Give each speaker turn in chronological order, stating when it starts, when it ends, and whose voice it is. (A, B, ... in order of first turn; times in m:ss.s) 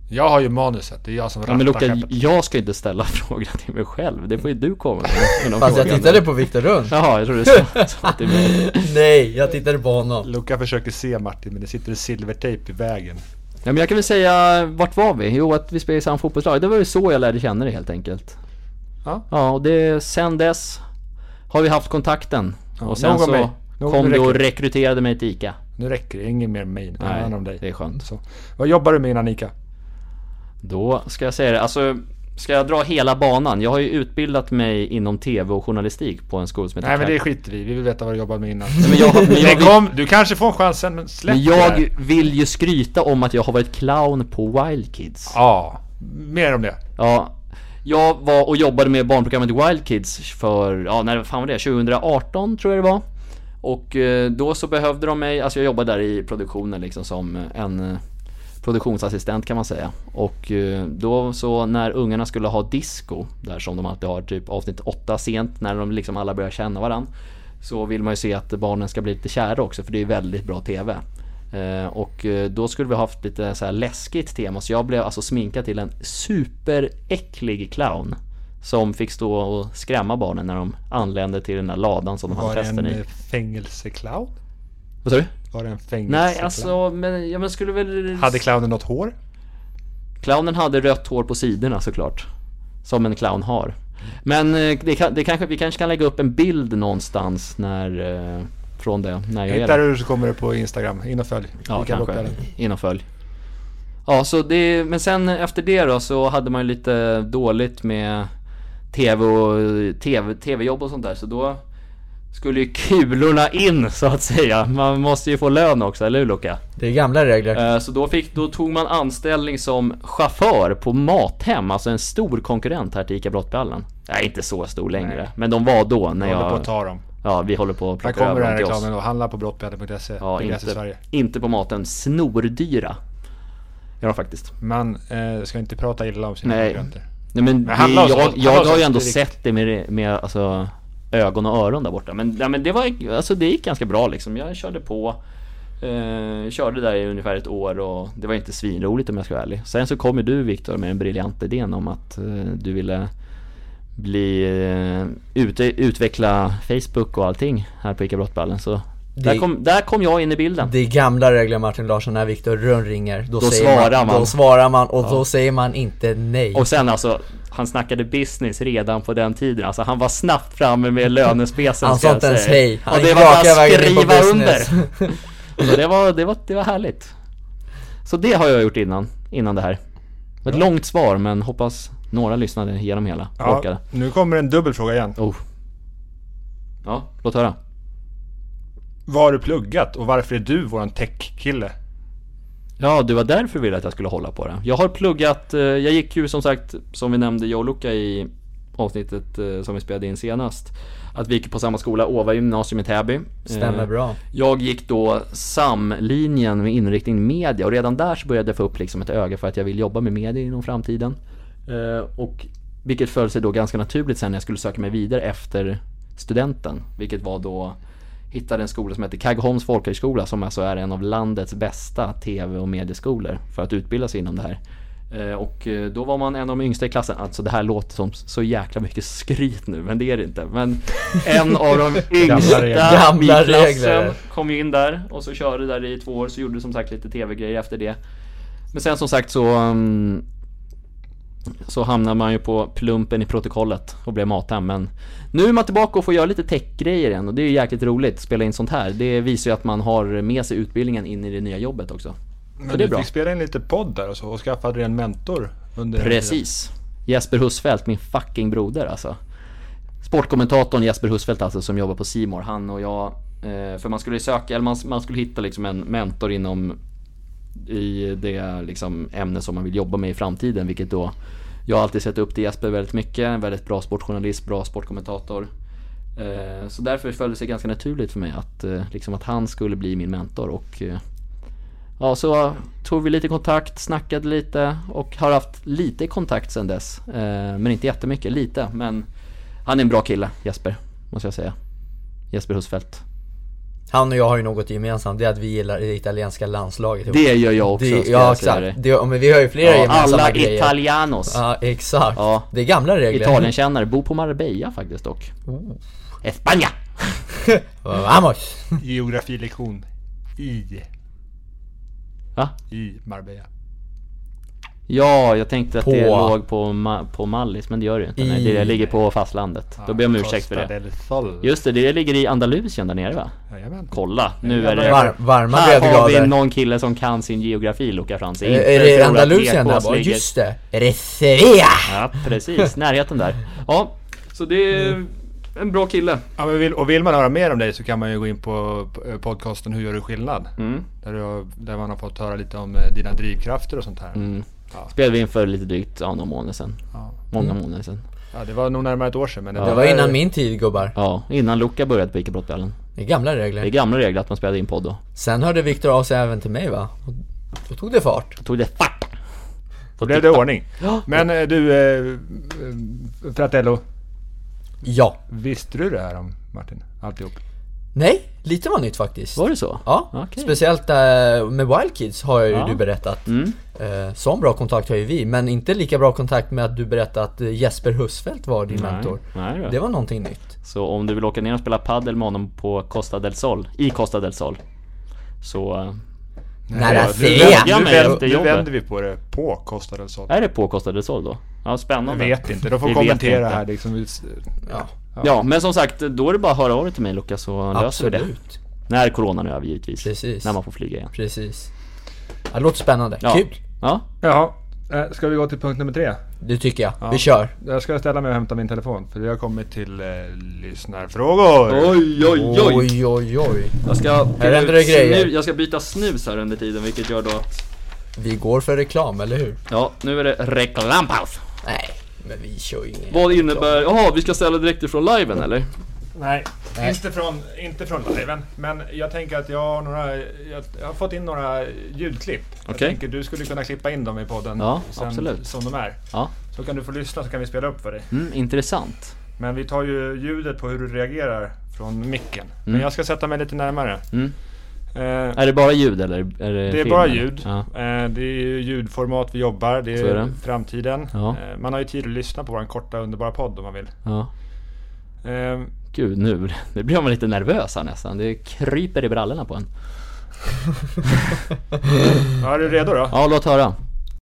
0:00.1-0:02.1 A
0:01.5-0:06.3 B
0:05.6-0:10.3 C
0:06.9-0:08.9 B
0:10.2-0:13.2 A
0:13.6-0:18.4 B
0:19.3-0:20.8 B
0:21.5-0:25.6 B
0:22.8-0:24.4 A
0:25.8-0:29.5 A
0:27.0-0:28.0 B
0:30.6-0:37.2 B
0:36.8-0:41.9 A
0:38.8-0:39.9 B
0:41.3-0:45.3 B
0:45.3-0:46.8 A
0:47.0-0:53.0 B
0:53.6-0:58.0 B
0:58.6-1:07.1 B
1:07.6-1:23.0 B
1:22.3-1:24.3 A
1:25.0-1:25.3 B
1:25.5-1:26.7 A
1:26.1-1:28.4 B
1:28.2-1:29.1 A
1:30.2-1:32.2 B
1:32.8-1:39.8 B
1:39.5-1:42.4 A
1:41.7-1:43.0 B
1:44.0-1:48.3 B
1:48.9-1:51.6 B
1:52.3-1:56.6 B
1:56.8-1:57.6 C
1:57.5-2:06.7 B
2:05.0-2:05.3 A
2:06.2-2:07.0 A
2:07.2-2:08.8 B
2:08.0-2:11.0 A
2:10.2-2:13.0 B
2:14.0-2:14.5 B
2:14.6-2:17.0 A
2:16.4-2:25.2 B
2:17.6-2:19.3 A
2:25.8-2:33.1 B
2:34.0-2:40.7 B
2:39.2-2:39.4 C
2:40.6-2:46.6 C
2:43.4-2:44.4 B
2:46.5-2:57.1 B
2:51.8-2:55.1 C
2:58.0-2:59.8 B
3:00.4-3:03.8 B
3:03.4-3:05.2 A
3:06.8-3:07.6 B
3:09.1-3:11.7 A
3:12.8-3:37.8 B
3:23.5-3:24.2 C
3:38.3-3:44.6 B
3:45.1-3:58.0 B
3:52.1-3:53.1 A
3:52.5-3:54.2 C
3:58.7-4:00.2 B
4:01.6-4:12.2 B
4:12.6-4:16.4 A
4:12.7-4:13.1 B
4:16.0-4:19.2 B
4:20.0-4:26.8 B
4:27.6-4:31.1 B
4:31.7-4:35.5 B
4:36.2-4:41.0 B
4:42.0-4:49.0 B
4:49.6-4:51.6 B
4:52.3-4:53.0 B
4:53.9-5:00.8 C
4:57.1-4:58.8 B
4:59.6-5:01.4 B
5:01.3-5:03.5 C
5:02.1-5:02.5 B
5:03.1-5:05.3 B
5:05.5-5:05.8 C
5:06.2-5:07.2 B
5:07.4-5:08.8 C
5:08.8-5:09.8 A
5:10.4-5:10.8 A
5:12.7-5:13.5 A
5:14.9-5:20.7 B
5:15.8-5:16.3 C
5:18.2-5:18.8 C
5:19.8-5:21.5 A
5:21.4-5:23.3 B
5:23.5-5:25.1 A
5:23.9-5:30.2 B
5:24.8-5:26.3 C
5:28.4-5:32.0 C
5:31.8-5:36.2 B
5:36.4-5:44.9 A
5:40.6-5:40.8 B
5:44.1-5:46.8 B
5:47.3-5:48.0 B
5:48.3-5:50.2 A
5:49.6-5:49.8 B
5:49.6-5:50.9 C
5:50.9-5:52.7 B
5:53.0-5:53.7 C
5:53.6-5:55.0 B
5:55.2-5:58.4 C
5:58.4-5:59.1 B
6:00.0-6:01.0 B
6:00.0-6:03.8 A
6:04.8-6:05.2 C
6:05.3-6:07.4 A
6:07.9-6:20.5 C
6:09.4-6:10.5 B
6:12.5-6:13.6 B
6:18.7-6:19.8 B
6:20.6-6:24.6 B
6:25.4-6:26.0 B
6:26.7-6:30.3 A
6:26.7-6:28.2 C
6:26.8-6:28.7 B
6:30.3-6:33.6 B
6:32.1-6:34.5 A
6:35.2-6:38.3 B
6:37.7-6:38.6 C
6:38.9-6:41.1 B
6:40.0-6:40.5 C
6:41.1-6:41.7 C
6:42.5-6:43.6 C
6:43.2-6:44.0 B
6:44.2-6:46.2 A
6:46.4-6:47.5 C
6:47.0-6:52.0 A
6:51.7-6:52.9 B
6:52.2-6:53.8 C
6:53.8-6:57.6 B
6:54.4-6:55.3 C
6:58.2-6:59.6 C
6:59.7-7:01.4 B
7:01.6-7:03.8 C
7:03.1-7:05.7 B
7:06.1-7:18.1 A
7:12.7-7:13.0 B
7:14.6-7:15.4 B
7:18.1-7:19.1 B
7:19.4-7:24.0 A
7:24.9-7:25.4 A
7:25.3-7:27.6 B
7:26.7-7:33.9 A
7:30.0-7:30.4 B
7:34.0-7:34.3 B
7:35.2-7:35.7 A
7:35.9-7:39.7 B
7:42.3-7:43.1 A
7:43.1-7:43.8 B